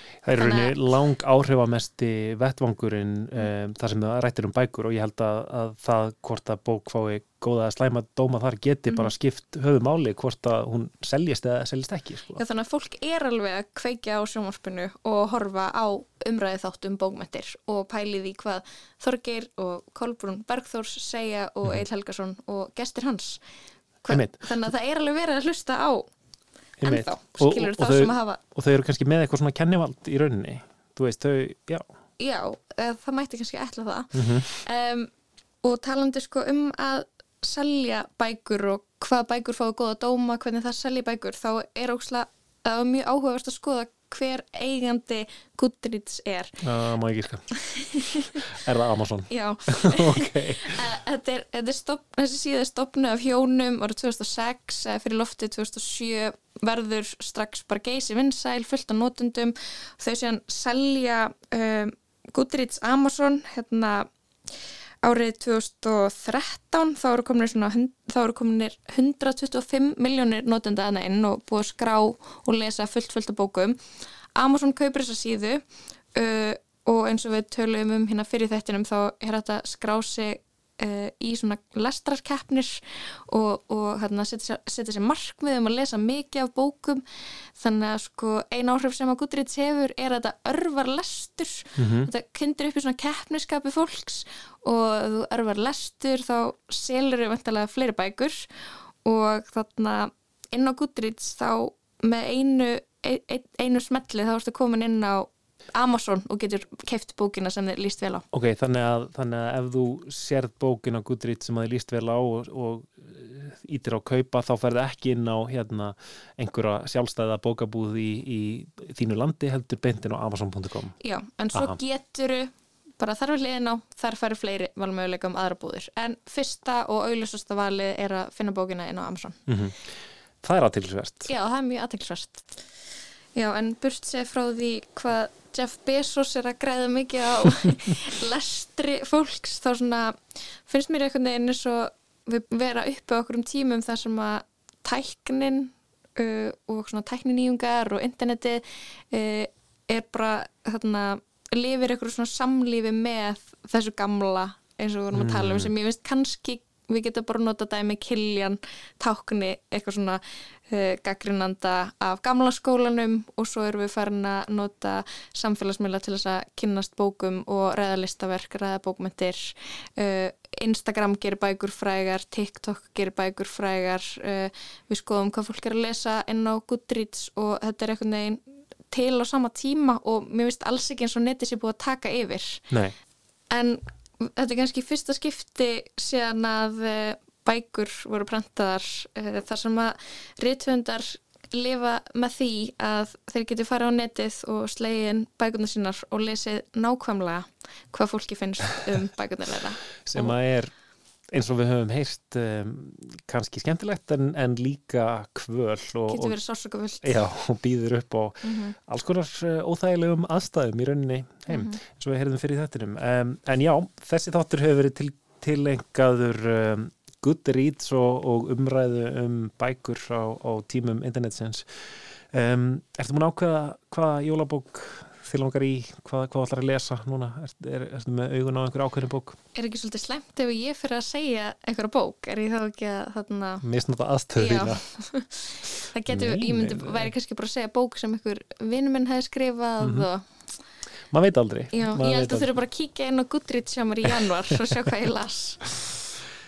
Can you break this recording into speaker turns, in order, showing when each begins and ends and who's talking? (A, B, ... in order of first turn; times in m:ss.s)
0:00.2-0:12.4 A
0:00.3-0:00.7 B
0:12.4-0:23.4 B
0:24.0-0:26.0 B
0:24.1-0:24.4 A
0:26.8-0:31.8 A
0:26.8-0:28.4 B
0:32.2-0:35.1 B
0:34.1-0:34.6 A
0:35.6-0:46.5 B
0:46.6-0:47.4 A
0:47.7-0:48.4 B
0:48.6-0:50.8 A
0:49.3-1:04.1 B
1:05.0-1:13.8 B
1:14.4-1:15.6 B
1:16.1-1:27.0 B
1:27.6-1:38.5 B
1:31.8-1:32.1 A
1:39.0-1:48.2 B
1:48.3-2:00.9 A
2:01.0-2:09.4 B
2:09.5-2:09.8 A
2:10.4-2:11.3 A
2:11.3-2:12.5 B
2:13.4-2:20.2 B
2:20.7-3:02.6 B
2:35.1-2:35.7 A
3:03.5-3:20.4 B
3:20.0-3:20.7 A
3:21.3-3:26.4 A
3:26.1-3:27.2 B
3:27.0-3:41.6 A
3:28.4-3:28.8 B
3:31.5-3:31.8 B
3:42.3-3:49.4 A
3:49.5-3:53.6 B
3:53.6-3:54.8 A
3:54.4-4:00.2 B
3:56.1-3:57.1 A
3:59.8-4:00.1 A
4:01.1-4:02.5 A
4:01.7-4:05.6 B